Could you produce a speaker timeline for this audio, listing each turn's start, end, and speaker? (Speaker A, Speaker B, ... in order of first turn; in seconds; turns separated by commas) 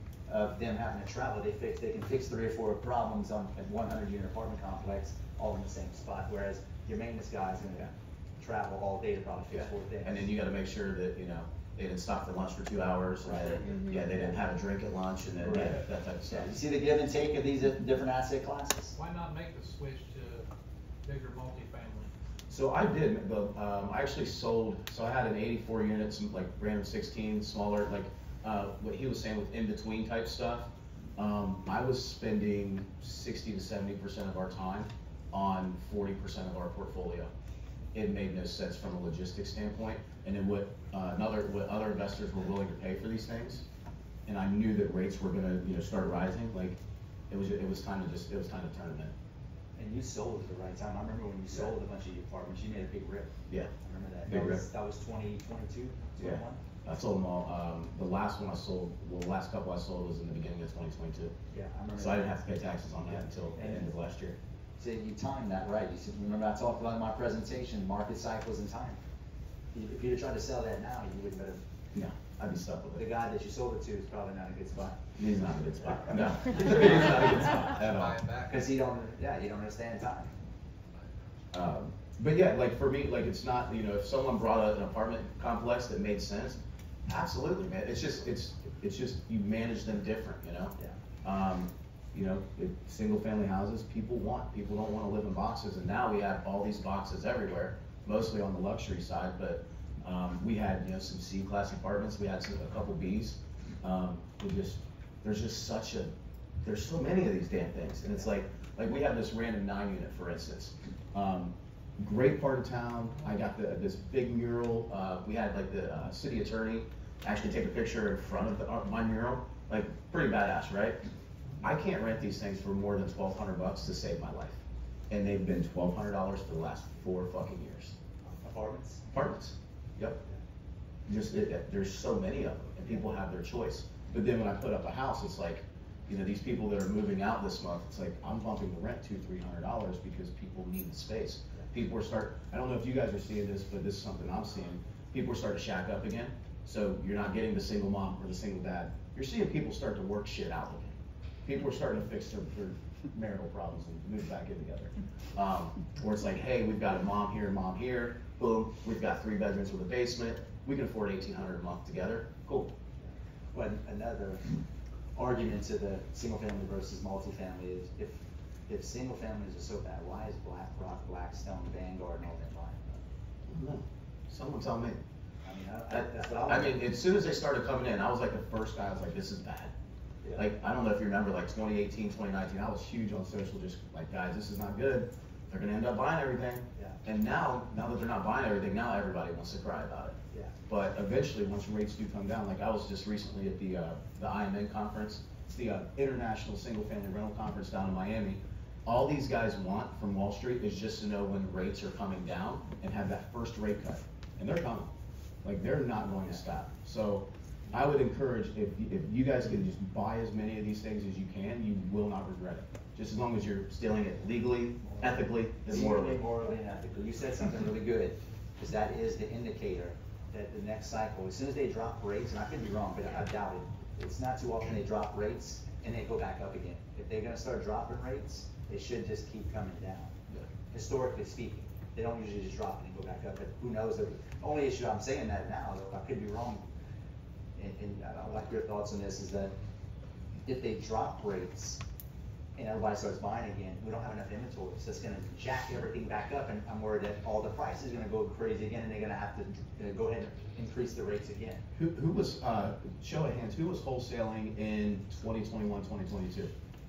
Speaker A: 0.3-10.2, Speaker B: 9.5-16.6, Speaker A: 13.2-14.4, Speaker A: 15.5-19.0, Speaker C: 19.0-20.5, Speaker C: 21.1-22.1, Speaker B: 22.5-37.3, Speaker B: 37.9-43.6, Speaker B: 44.3-46.8, Speaker B: 47.3-49.1, Speaker A: 49.8-56.6, Speaker B: 54.3-54.6, Speaker B: 56.2-61.3, Speaker A: 61.5-62.4, Speaker B: 62.0-64.4, Speaker A: 63.0-63.9, Speaker A: 64.8-69.0, Speaker A: 69.7-71.6, Speaker B: 71.9-73.1, Speaker A: 73.0-75.0, Speaker B: 75.2-78.2, Speaker A: 78.5-80.3, Speaker B: 81.5-121.0, Speaker B: 121.6-128.0, Speaker A: 128.4-129.0, Speaker B: 129.1-130.2, Speaker B: 131.1-162.7, Speaker A: 163.0-164.5, Speaker A: 165.2-173.0, Speaker B: 173.5-175.0, Speaker A: 175.4-176.8, Speaker B: 175.9-179.7, Speaker B: 180.4-204.9, Speaker B: 205.4-216.2, Speaker A: 215.7-230.1, Speaker A: 230.7-236.7, Speaker A: 237.6-239.5, Speaker A: 240.4-241.8, Speaker A: 242.6-251.6, Speaker B: 251.8-256.5